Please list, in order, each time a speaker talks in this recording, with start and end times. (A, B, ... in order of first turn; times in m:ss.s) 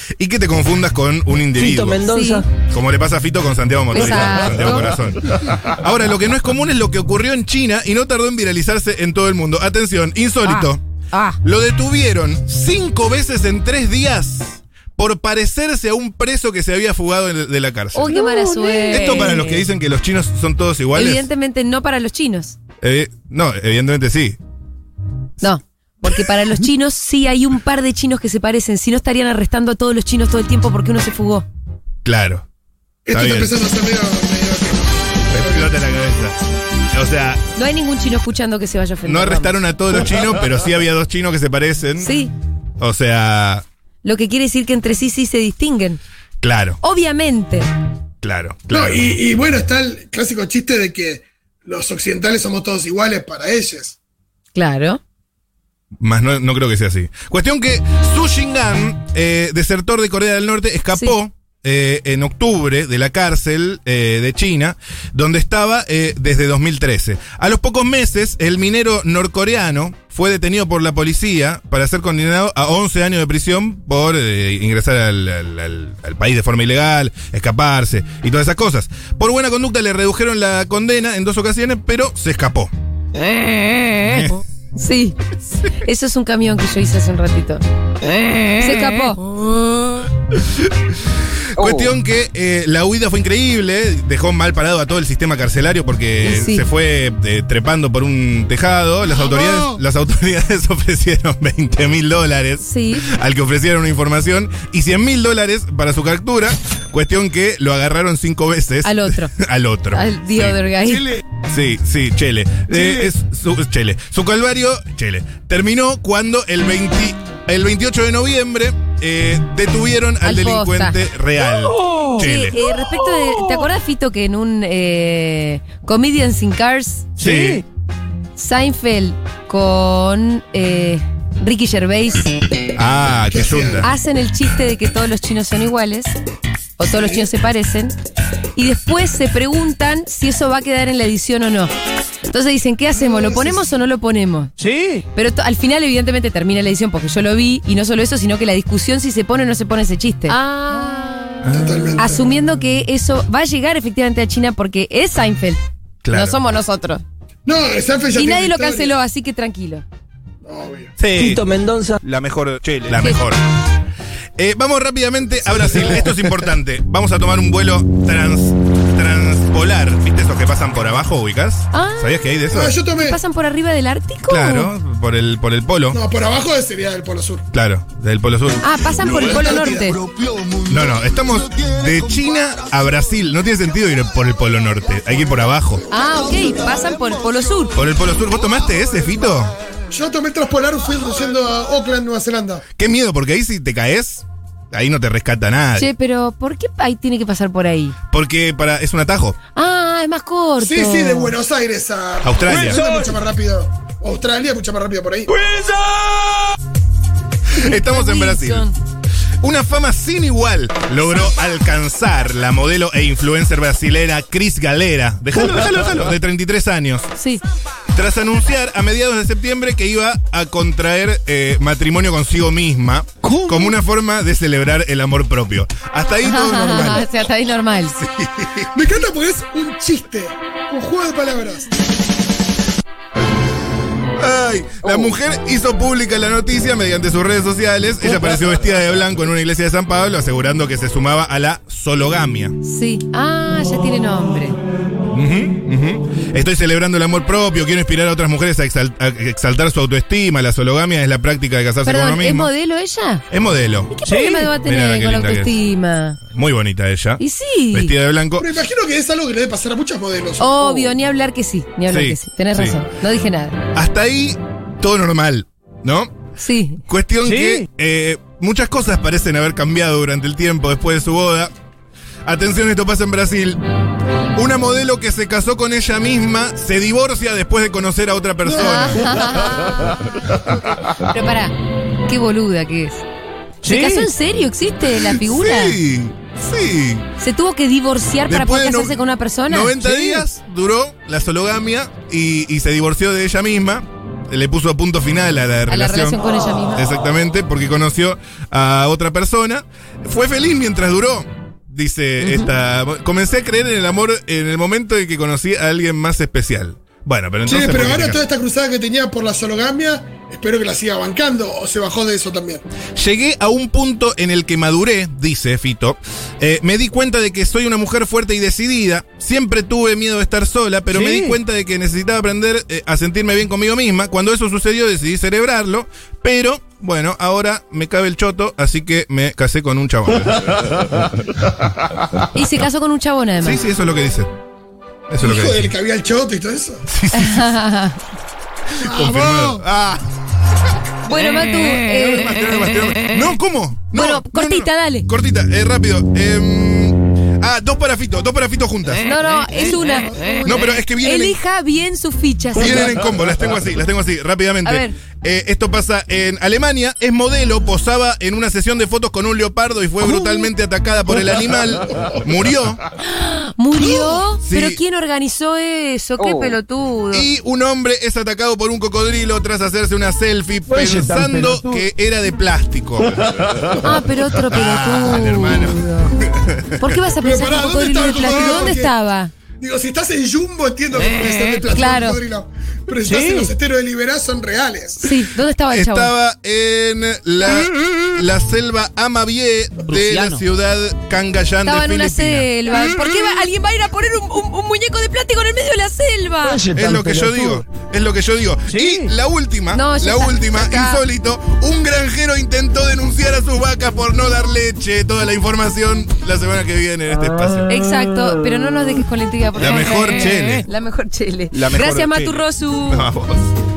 0:00.2-0:02.0 A
0:01.5-0:02.5 B
0:02.0-0:02.4 C
0:02.7-0:10.8 A
0:03.9-0:05.0 C
0:10.4-0:11.4 C
0:11.4-0:18.2 A
0:17.9-0:19.7 C
0:18.9-0:21.3 A
0:20.9-0:22.6 C
0:22.8-0:24.4 A
0:25.4-0:31.4 C
0:32.0-0:32.4 A
0:33.0-0:35.7 D
0:33.1-0:33.5 A
0:35.3-0:36.4 A
0:36.9-0:37.4 A
0:37.5-0:39.6 C
0:39.0-0:42.1 A
0:42.0-0:42.3 C
0:42.8-0:43.6 A
0:44.0-0:46.0 C
0:46.4-0:46.8 A
0:46.8-0:47.7 C
0:48.2-0:49.1 A
0:48.7-0:54.0 D
0:54.5-0:55.0 C
0:56.0-1:22.7 A
1:24.0-1:24.4 A
1:24.7-1:25.2 C
1:25.7-1:27.6 C
1:28.5-1:29.3 C
1:30.4-1:30.9 A
1:31.5-1:50.6 A
1:36.2-1:36.6 C
1:39.2-1:39.8 D
1:42.6-1:43.1 C
1:48.8-1:49.3 C
1:49.9-1:51.2 C
1:50.8-1:51.2 D
1:51.4-2:02.6 A
1:52.7-1:53.1 D
2:00.2-2:01.0 C
2:02.2-2:07.1 C
2:07.2-2:07.6 A
2:07.2-2:07.6 B
2:08.4-2:12.4 C
2:12.8-2:13.9 A
2:13.3-2:13.9 D
2:13.8-2:16.1 C
2:16.8-2:18.0 C
2:16.8-2:17.3 D
2:18.6-2:21.7 C
2:22.2-2:24.5 C
2:22.9-2:23.7 D
2:24.6-2:25.0 B
2:25.1-2:31.4 C
2:31.4-2:31.9 A
2:31.5-2:32.3 D
2:32.0-2:37.0 C
2:36.0-2:36.4 A
2:37.4-2:39.0 D
2:38.1-2:39.8 C
2:40.4-2:40.9 D
2:41.0-2:41.4 A
2:41.1-2:42.0 B
2:42.0-2:43.4 A
2:44.4-2:52.7 A
2:51.7-2:52.1 C
2:52.5-2:53.2 D
2:53.0-2:54.7 C
2:54.3-2:56.0 A
2:55.9-2:57.4 D
2:57.5-2:58.7 A
2:58.6-3:00.0 C
2:59.0-3:00.1 D
3:00.6-3:05.8 A
3:05.9-3:07.8 C
3:07.7-3:09.5 A
3:09.9-3:12.6 D
3:12.8-3:15.9 A
3:15.8-3:18.0 C
3:18.1-3:19.4 A
3:19.5-3:21.3 C
3:20.6-3:25.3 D
3:22.2-3:22.8 A
3:22.5-3:23.1 B
3:25.3-3:26.5 B
3:27.5-3:28.8 C
3:27.5-3:28.7 A
3:29.4-3:37.1 A
3:37.2-3:37.4 C
3:37.9-3:47.1 A
3:43.2-3:43.5 B
3:46.2-3:48.0 C
3:47.9-3:48.7 A
3:48.7-3:51.7 D
3:54.2-4:02.6 A
4:02.6-4:04.6 C
4:05.1-4:12.5 A
4:11.8-4:13.2 C
4:13.3-4:13.9 A
4:13.9-4:16.2 C
4:14.0-4:14.5 B
4:14.6-4:15.6 A
4:16.3-4:18.5 A
4:17.2-4:17.9 C
4:18.4-4:20.8 D
4:20.4-4:23.6 C
4:21.9-4:22.8 A
4:23.7-4:26.1 A
4:26.4-4:26.8 C
4:26.9-4:31.5 A
4:27.2-4:27.6 B
4:32.2-4:33.6 A
4:34.3-4:39.4 A
4:38.5-4:39.5 D
4:38.5-4:40.0 C
4:40.3-4:40.6 D
4:40.9-4:43.0 C
4:43.6-4:44.1 B
4:43.6-4:45.8 C
4:44.9-4:47.0 A
4:47.2-4:50.2 C
4:48.3-4:49.0 A
4:49.5-5:08.2 A
4:55.7-4:56.9 C
5:02.2-5:02.5 C
5:07.4-5:12.6 D
5:13.0-5:32.2 A
5:20.9-5:21.4 B
5:32.3-5:33.6 C
5:33.4-5:34.3 A
5:35.1-5:35.7 A
5:35.2-5:36.8 D
5:36.9-5:37.5 A
5:37.1-5:38.0 C
5:38.8-5:39.6 D
5:38.8-5:40.0 A
5:41.0-5:42.4 C
5:41.9-5:49.0 A
5:43.9-5:45.1 C
5:49.0-5:50.1 C
5:49.4-5:50.7 D
5:50.4-5:51.4 A
5:51.0-5:52.9 C
5:52.6-6:02.8 A
5:54.6-5:54.9 C
6:03.0-6:07.3 C
6:04.4-6:04.8 A
6:07.1-6:13.8 A
6:10.7-6:11.8 B
6:13.8-6:16.1 C
6:14.4-6:16.9 A
6:16.8-6:19.3 C
6:17.2-6:18.9 D
6:19.6-6:25.1 D
6:21.7-6:22.2 C
6:23.0-6:23.5 B
6:25.0-6:26.1 C
6:25.7-6:32.5 A
6:31.6-6:36.7 C
6:36.4-6:37.6 B
6:36.7-6:47.7 A
6:39.7-6:41.0 C
6:47.7-6:53.1 C
6:49.5-6:50.7 A
6:51.5-6:53.5 A